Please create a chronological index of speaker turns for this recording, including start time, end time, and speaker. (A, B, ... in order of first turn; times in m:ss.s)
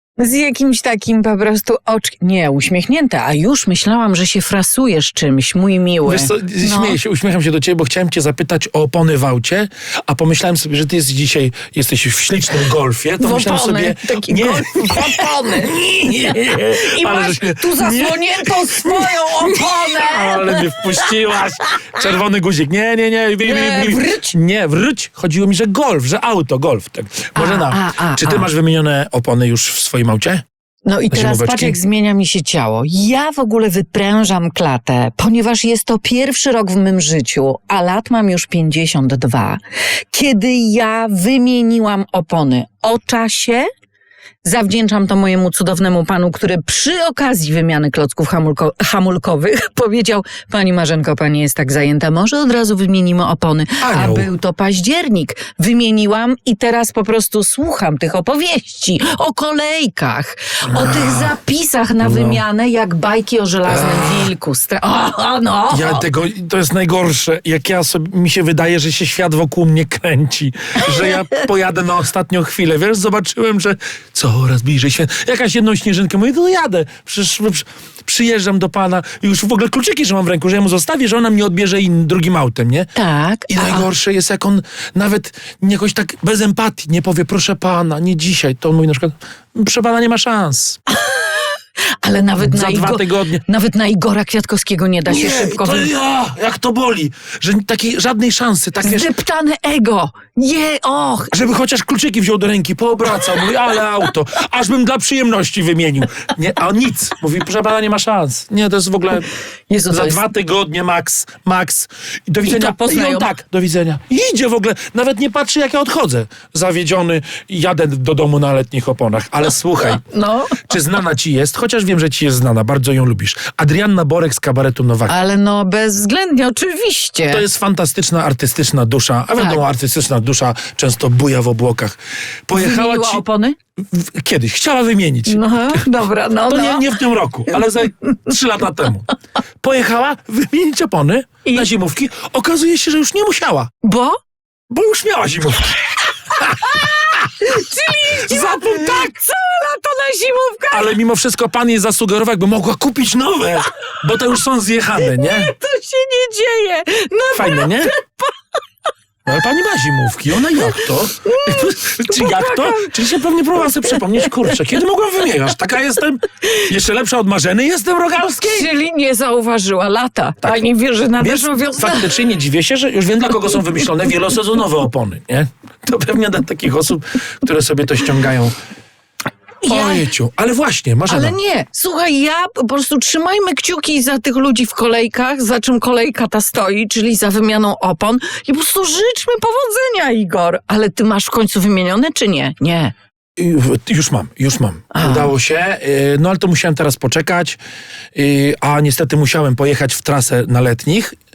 0:00.2-0:07.0 A
0:06.0-0:30.4 B
0:13.2-0:15.7 A
0:16.3-0:22.1 A
0:23.4-0:24.2 A
0:27.3-0:28.5 A
0:30.8-0:39.6 A
0:31.1-0:31.8 B
0:40.1-0:43.7 A
0:44.4-1:06.0 A
0:53.8-0:54.3 B
1:00.7-1:01.3 B
1:02.0-1:02.4 B
1:03.6-1:04.3 B
1:05.7-1:22.9 B
1:22.9-1:23.8 A
1:23.5-1:30.8 B
1:30.9-1:35.9 A
1:32.4-1:33.4 B
1:35.1-1:39.1 B
1:38.8-1:41.3 A
1:41.3-1:49.3 B
1:49.7-1:50.2 A
1:49.9-2:00.0 B
1:52.4-1:53.3 A
2:00.0-2:00.6 A
2:00.6-2:05.1 B
2:05.1-2:07.4 A
2:07.3-2:13.2 B
2:12.5-2:13.6 A
2:13.9-2:15.8 B
2:15.3-2:17.0 A
2:16.5-2:19.1 B
2:19.6-2:23.7 B
2:23.8-2:24.2 A
2:24.7-2:25.8 B
2:26.3-2:27.3 B
2:26.4-2:31.0 A
2:28.1-2:29.0 B
2:30.7-2:35.5 B
2:35.0-2:38.3 A
2:37.3-2:37.9 B
2:39.2-2:48.7 B
2:40.6-2:42.9 A
2:43.6-2:44.3 A
2:48.4-2:52.2 A
2:51.2-2:58.5 B
2:59.6-3:00.1 A
2:59.7-3:01.4 B
3:01.1-3:12.9 A
3:13.4-3:17.6 B
3:14.9-3:15.3 A
3:18.1-3:21.2 B